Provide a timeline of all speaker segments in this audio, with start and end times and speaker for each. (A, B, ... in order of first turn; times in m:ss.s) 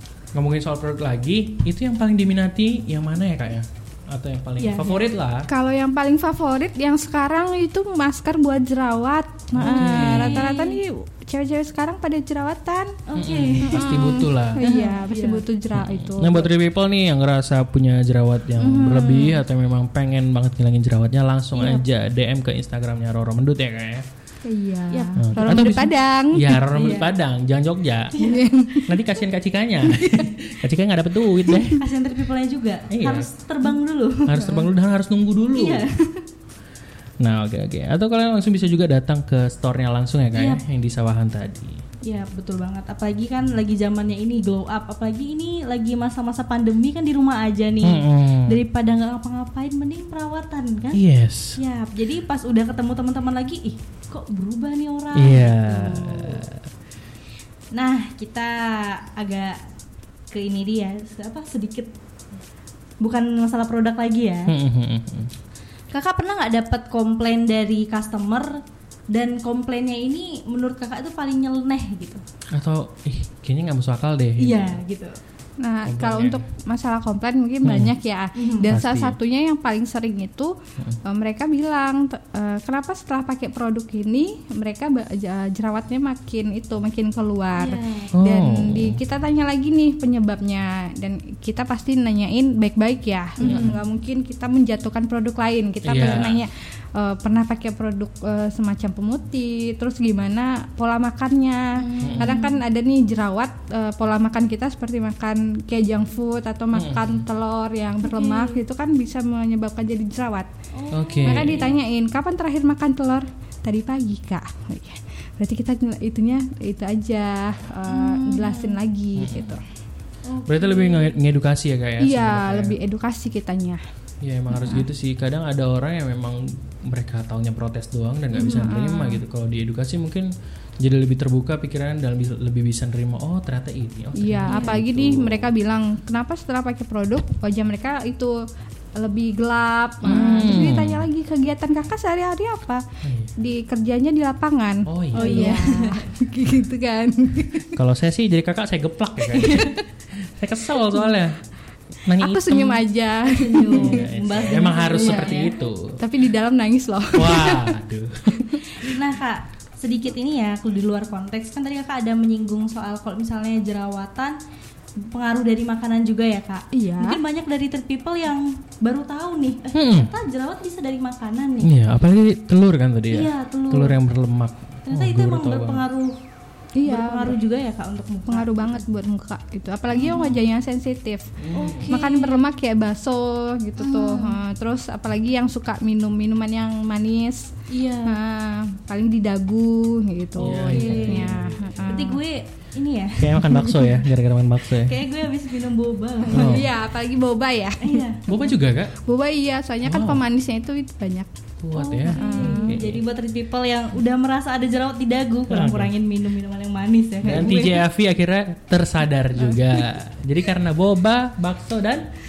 0:00.3-0:05.5 A
0:04.6-0:05.1 B
0:05.5-0:13.0 C
0:09.6-0:10.5 A
0:09.6-0:10.8 B
0:13.1-0:15.4 B
0:13.1-0:14.6 A
0:13.7-0:16.5 C
0:15.7-0:24.1 A
0:18.7-0:19.3 C
0:18.8-0:19.3 B
0:24.4-0:26.6 C
0:24.9-0:25.8 B
0:25.2-0:28.2 A
0:26.7-0:27.1 B
0:28.1-0:28.5 B
0:28.2-0:28.9 C
0:28.9-0:31.8 A
0:29.9-0:30.3 C
0:31.7-0:34.5 B
0:32.9-0:33.3 A
0:34.2-0:35.9 A
0:35.5-0:36.2 B
0:37.2-0:41.8 A
0:40.3-0:40.6 B
0:42.0-0:51.0 B
0:47.8-0:48.6 A
0:50.9-0:51.6 A
0:51.6-0:56.5 B
0:55.2-0:56.6 A
0:57.7-0:59.6 B
1:00.3-1:01.9 B
1:03.0-1:04.5 B
1:04.5-1:05.3 A
1:05.9-1:12.2 B
1:12.5-1:14.8 A
1:14.4-1:15.2 B
1:15.6-1:50.5 C
1:15.9-1:16.4 A
1:17.6-1:17.9 A
1:18.4-1:18.7 B
1:18.7-1:19.2 A
1:27.6-1:28.1 B
1:28.1-1:29.0 A
1:33.4-1:33.8 B
1:33.4-1:33.8 A
1:35.8-1:36.4 A
1:41.8-1:42.6 B
1:42.0-1:42.4 A
1:46.7-1:47.2 A
1:48.0-1:48.6 B
1:50.7-1:51.7 B
1:50.9-1:51.7 A
1:51.2-1:59.6 C
1:57.9-1:58.8 B
1:59.2-1:59.6 A
2:00.3-2:01.2 B
2:00.5-2:02.8 A
2:02.0-2:03.8 C
2:04.2-2:15.5 A
2:04.5-2:04.8 C
2:08.3-2:09.2 C
2:14.2-2:18.4 C
2:14.5-2:14.8 B
2:19.0-2:22.8 C
2:20.0-2:21.1 A
2:23.0-2:23.3 A
2:23.4-2:27.8 C
2:24.9-2:25.6 A
2:25.1-2:26.0 B
2:27.7-2:31.4 A
2:29.3-2:29.7 B
2:32.1-2:32.8 A
2:32.2-2:34.0 C
2:33.2-2:35.6 B
2:33.7-2:36.0 A
2:35.0-2:35.4 C
2:36.0-2:37.8 C
2:37.2-2:38.6 A
2:38.8-2:44.4 B
2:45.0-2:51.7 B
2:46.7-2:47.2 C
2:49.7-2:50.1 A
2:51.6-2:55.8 A
2:53.1-2:54.0 B
2:54.9-2:56.2 B
2:56.8-2:57.4 C
2:56.8-2:58.8 B
2:58.3-3:01.3 C
2:59.9-3:00.4 B
3:01.4-3:02.0 A
3:01.5-3:02.4 B
3:01.9-3:07.5 C
3:03.8-3:04.4 B
3:07.7-3:08.2 B
3:08.0-3:12.2 C
3:10.4-3:11.3 B
3:10.4-3:12.0 A
3:11.9-3:13.8 B
3:13.2-3:15.0 A
3:14.7-3:16.6 B
3:16.3-3:18.1 C
3:16.3-3:16.7 A
3:17.8-3:18.2 B
3:18.3-3:19.0 A
3:19.0-3:21.3 C
3:19.8-3:20.2 A
3:21.6-3:23.0 A
3:21.8-3:27.8 B
3:22.0-3:22.8 C
3:25.5-3:25.9 A
3:27.2-3:32.1 A